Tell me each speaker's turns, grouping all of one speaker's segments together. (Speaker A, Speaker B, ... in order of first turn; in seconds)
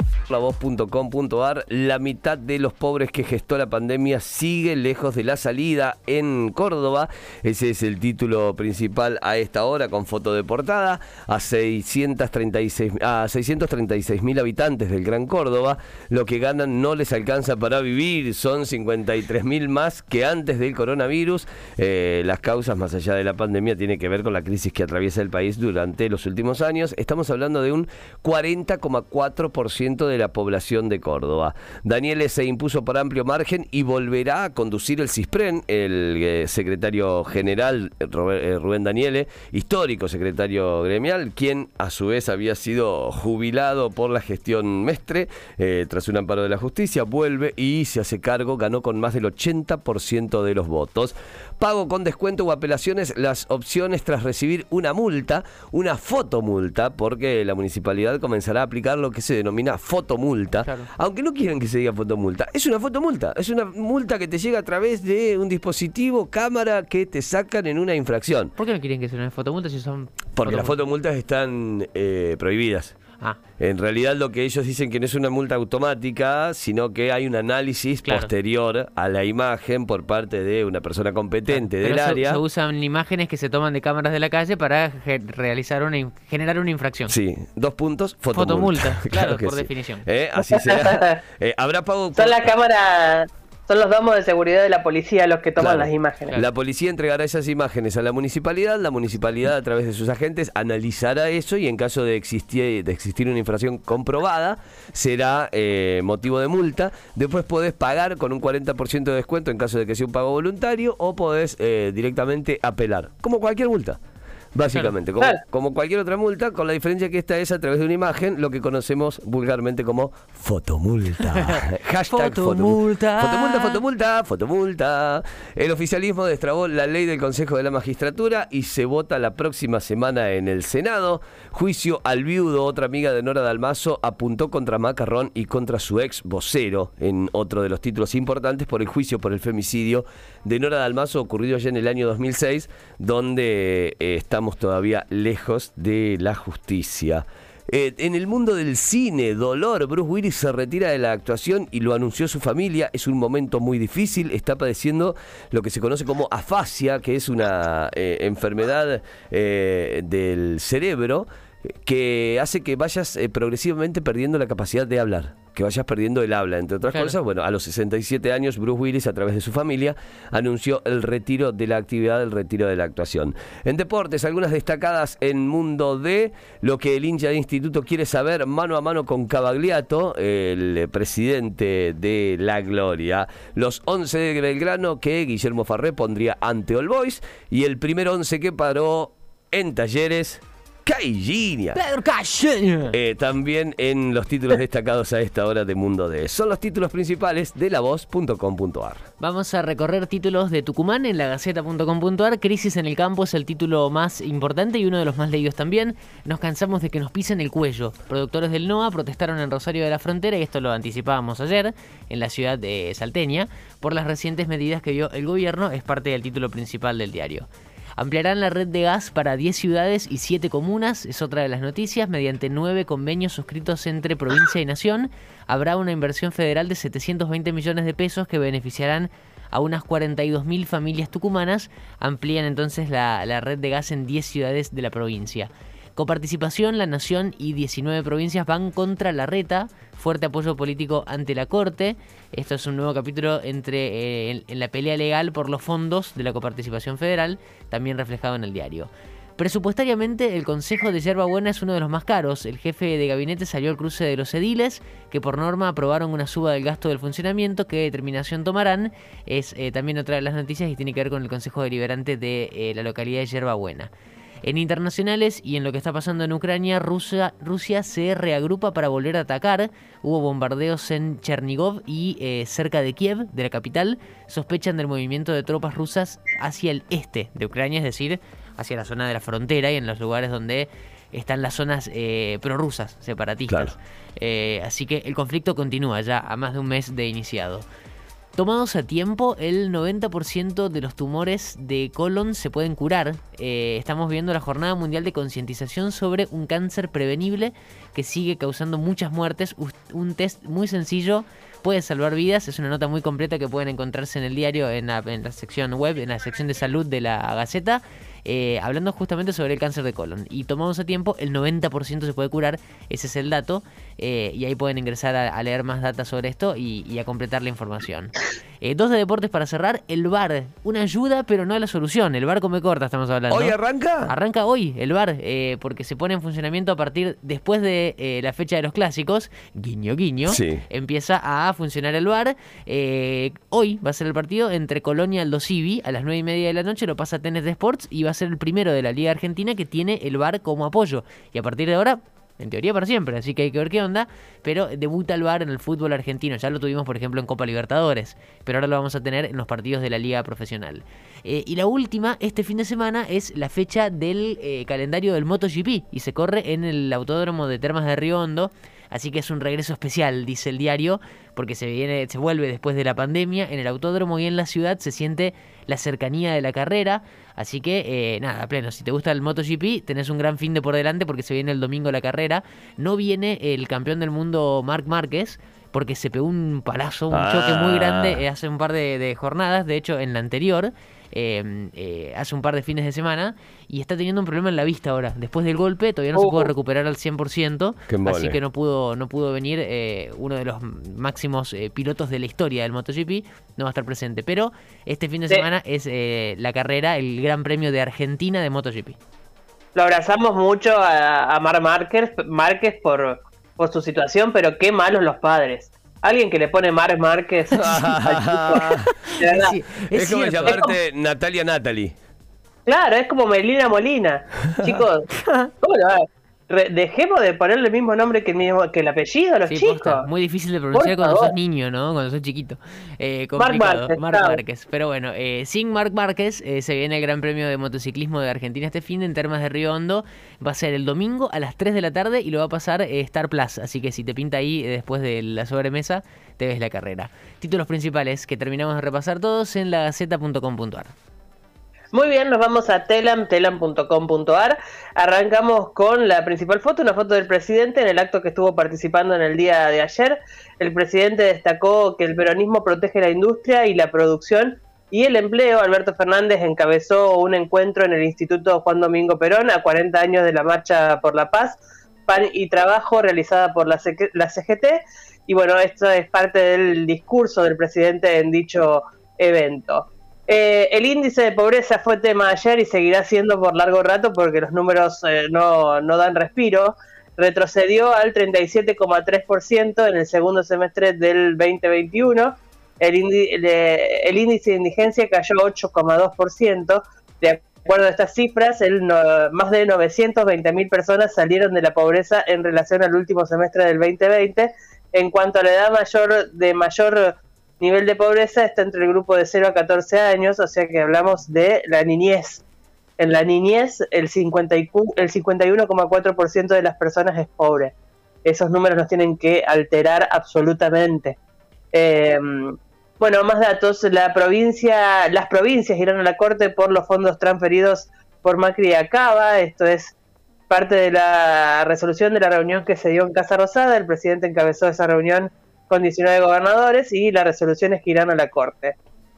Speaker A: 0.3-68.5, 70.4-73.0, 73.6-82.4, 87.1-92.5, 95.6-114.0, 114.5-161.3, 161.8-191.8, 192.9-199.1, 323.3-324.1, 330.3-330.6, 377.1-378.2, 387.9-388.4, 407.6-408.9, 409.9-411.9
Speaker B: 60.6-60.9, 68.6-70.8, 78.0-78.3, 81.5-87.1, 88.3-90.0, 114.6-114.9, 121.3-123.8, 166.8-167.2, 191.7-192.9, 199.2-263.9, 264.4-287.7, 288.4-399.0, 407.5-410.7, 415.1-415.5, 419.5-440.9
Speaker C: 90.5-91.2, 92.2-96.4, 386.1-386.5, 399.8-408.6, 409.2-409.6, 410.5-410.8, 412.7-415.1, 415.6-420.1, 420.7-421.3, 423.4-424.4, 441.9-502.4, 503.0-507.7, 508.2-511.2, 511.7-520.0, 520.5-528.8